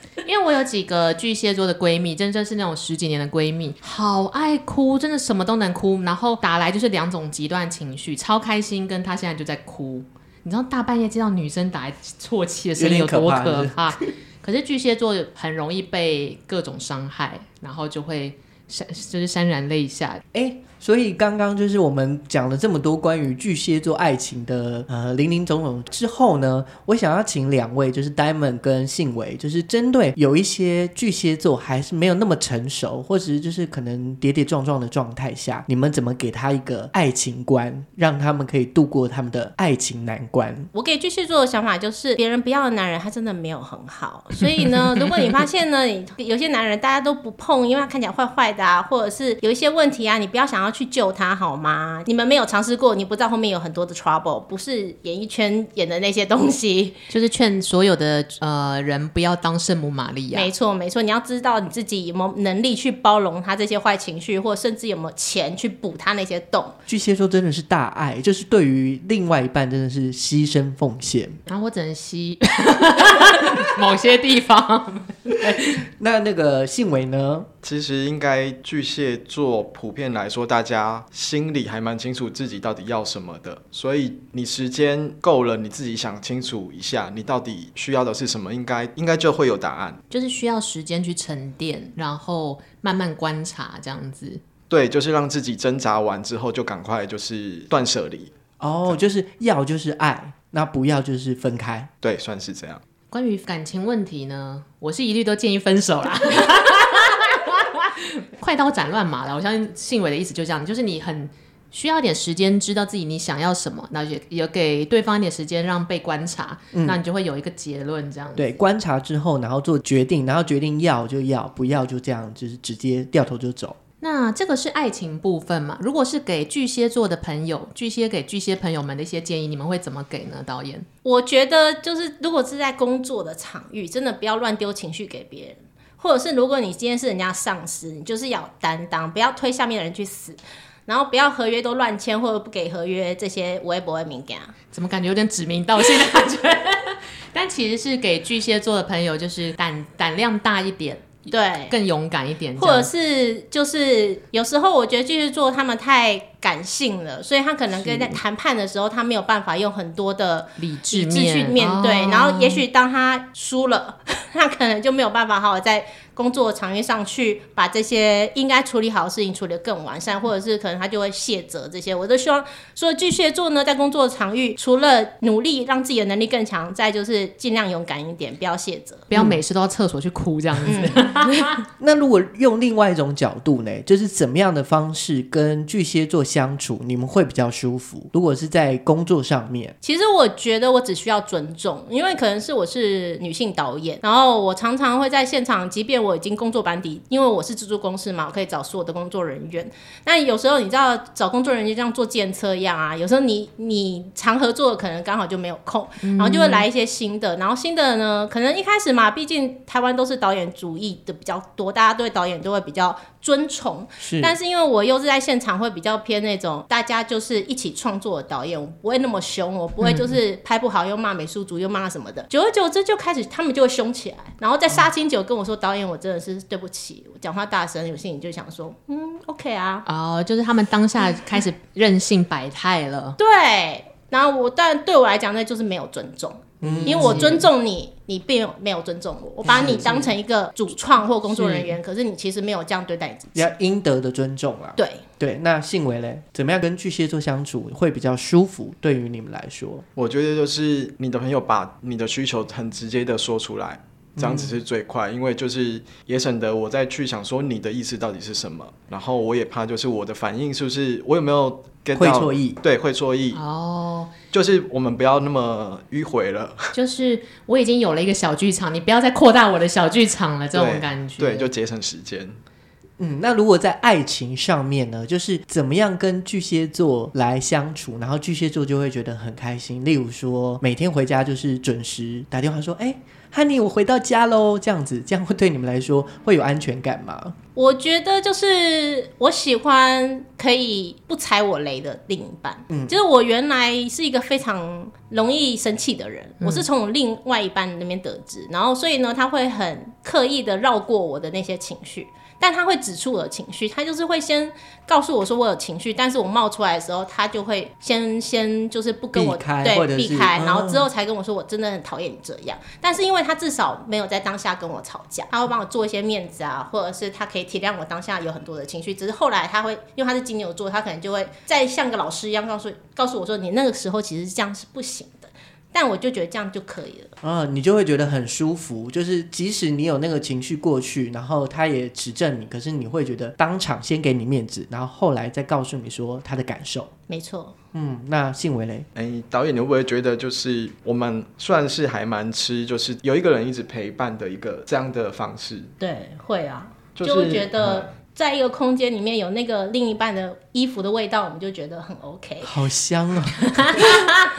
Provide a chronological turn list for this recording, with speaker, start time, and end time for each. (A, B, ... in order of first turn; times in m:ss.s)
0:00.2-0:20.2 A
0:12.8-0:14.0 B
0:20.3-0:40.7 B
0:40.7-0:57.0 C
0:57.1-1:00.5 A
1:00.3-1:06.8 C
1:06.9-1:11.4 B
1:11.5-1:15.9 A
1:15.7-1:17.5 B
1:17.6-1:30.0 D
1:30.1-1:34.4 A
1:34.7-1:38.3 D
1:38.6-1:41.9 B
1:42.0-1:42.8 D
1:43.1-1:58.5 A
1:56.7-1:57.0 B
1:58.4-2:03.8 B
2:04.0-2:10.9 A
2:11.0-2:24.5 C
2:24.7-2:32.9 A
2:31.3-2:31.8 C
2:32.6-2:59.1 C
2:37.8-2:38.2 A
2:40.6-2:42.6 A
2:59.1-3:01.6 A
2:59.1-2:59.4 B
3:00.6-3:01.4 C
3:01.8-3:09.7 B
3:09.8-3:49.8 C
3:26.0-3:26.6 A
3:34.0-3:34.4 B
3:39.8-3:40.1 A
3:49.8-3:53.2 A
3:53.2-4:03.5 C
3:56.6-3:57.4 B
3:56.8-3:57.4 A
3:59.4-4:00.1 A
3:59.5-3:59.8 B
4:01.3-4:01.8 A
4:03.3-4:09.8 B
4:04.8-4:05.0 C
4:10.0-4:23.4 D
4:14.2-4:14.5 B
4:21.9-4:22.6 B
4:23.3-4:24.1 A
4:24.3-4:26.7 D
4:26.7-4:31.5 A
4:30.5-4:32.4 D
4:33.0-4:47.4 B
4:47.5-5:27.1 C
4:52.7-4:53.0 B
5:09.1-5:10.9 B
5:27.2-5:36.9 B
5:37.1-5:37.5 C
5:37.7-5:38.9 B
5:38.9-5:45.7 D
5:45.8-5:52.5 C
5:46.9-5:47.9 D
5:52.4-5:53.6 B
5:53.6-5:54.2 A
5:53.8-5:54.1 C